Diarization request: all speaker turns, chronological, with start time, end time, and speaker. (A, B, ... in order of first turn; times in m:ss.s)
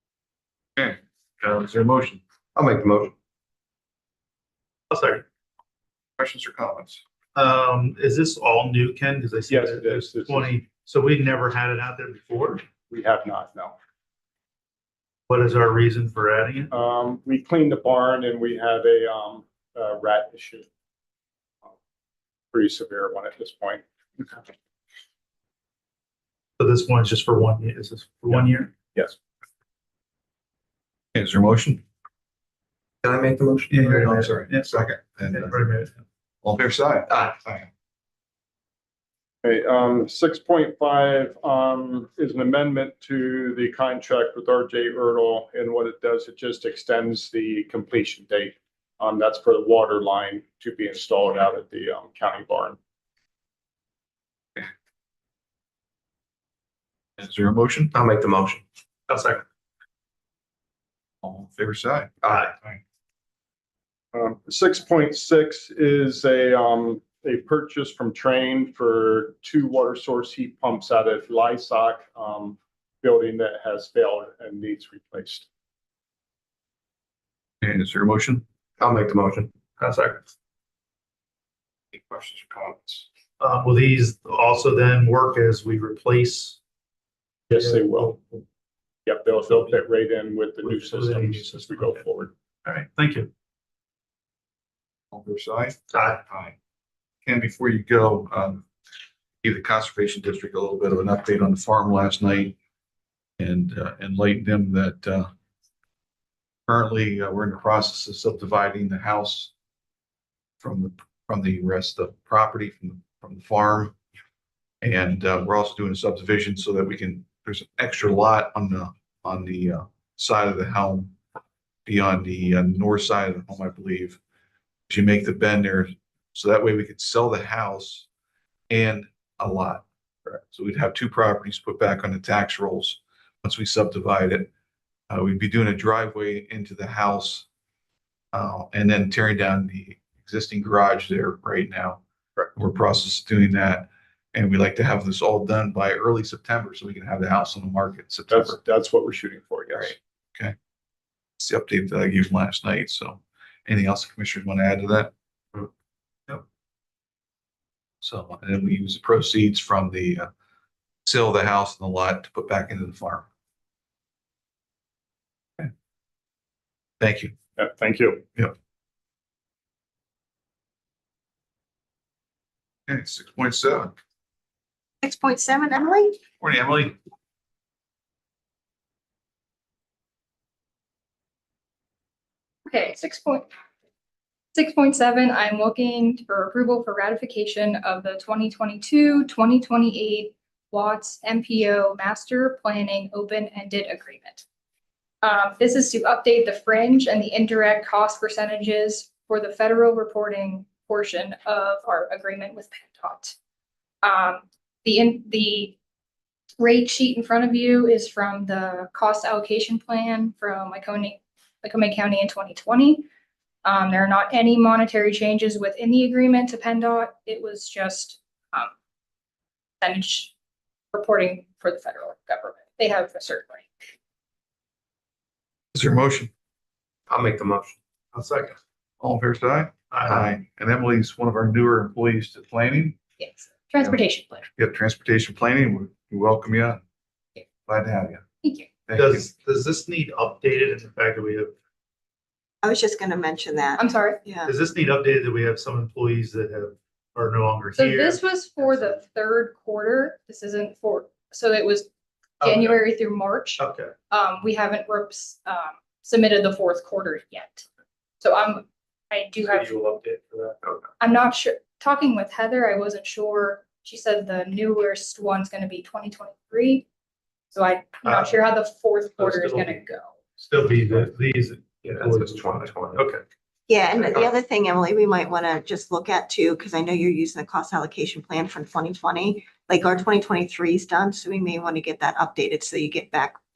0:00.8-0:02.2 A
0:02.5-0:03.1 B
0:04.9-0:05.2 C
0:06.2-0:07.0 A
0:07.3-0:12.6 C
0:09.5-0:10.5 D
0:12.9-0:13.8 D
0:15.3-0:16.7 C
0:16.7-0:20.7 D
0:22.5-0:24.4 D
0:26.6-0:28.7 C
0:31.1-0:31.8 A
0:33.0-0:33.8 B
0:33.7-0:34.7 C
0:33.8-0:35.7 A
0:35.3-0:35.9 C
0:36.4-0:37.7 A
0:39.4-0:52.8 D
0:57.2-0:57.9 A
0:57.9-0:59.4 B
1:01.2-1:02.8 A
1:02.2-1:02.5 B
1:04.1-1:15.5 D
1:17.6-1:18.4 A
1:18.8-1:20.2 B
1:21.9-1:23.0 A
1:23.4-1:26.6 C
1:27.5-1:28.4 C
1:27.5-1:28.2 D
1:29.0-1:32.3 D
1:30.6-1:32.0 C
1:32.6-1:33.3 C
1:35.1-1:36.5 A
1:35.9-1:36.2 C
1:37.2-1:38.6 A
1:39.4-1:42.6 A
1:43.4-1:45.3 A
1:46.7-1:49.5 A
1:50.6-1:53.9 A
1:54.8-2:01.1 A
2:01.8-2:04.2 A
2:04.9-2:08.1 A
2:08.7-2:09.8 A
2:10.4-2:14.5 A
2:15.1-2:17.4 A
2:18.3-2:22.0 A
2:22.5-2:28.6 A
2:28.3-2:30.0 D
2:29.7-2:30.5 A
2:31.4-2:35.1 A
2:38.0-2:40.3 A
2:41.0-2:43.3 A
2:47.0-2:47.3 A
2:47.6-2:48.2 D
2:52.9-2:53.9 A
2:55.0-2:56.2 E
2:56.4-2:56.9 A
3:02.7-3:03.5 F
3:04.5-3:14.4 F
3:15.2-3:23.4 F
3:24.0-3:25.8 F
3:26.6-3:33.0 F
3:33.6-3:38.7 F
3:39.8-3:40.3 F
3:40.9-3:43.7 F
3:45.7-3:46.3 A
3:47.1-3:47.8 B
3:48.1-3:48.6 C
3:49.0-3:53.0 A
3:49.9-3:50.4 C
3:53.2-3:54.5 F
3:54.6-3:56.8 A
3:57.6-3:58.2 A
3:58.4-3:58.7 F
3:58.9-3:59.3 A
3:58.9-4:01.5 C
4:02.6-4:04.5 E
4:03.8-4:04.2 F
4:04.4-4:09.0 C
4:07.7-4:11.9 F
4:12.4-4:12.8 C
4:12.4-4:17.6 F
4:13.6-4:13.9 C
4:18.2-4:19.8 F
4:19.4-4:20.6 C
4:21.0-4:26.8 F
4:27.5-4:30.1 F
4:28.0-4:28.4 C
4:29.2-4:29.8 C
4:30.4-4:33.2 C
4:31.8-4:33.1 B
4:33.7-4:43.4 E
4:33.9-4:34.3 B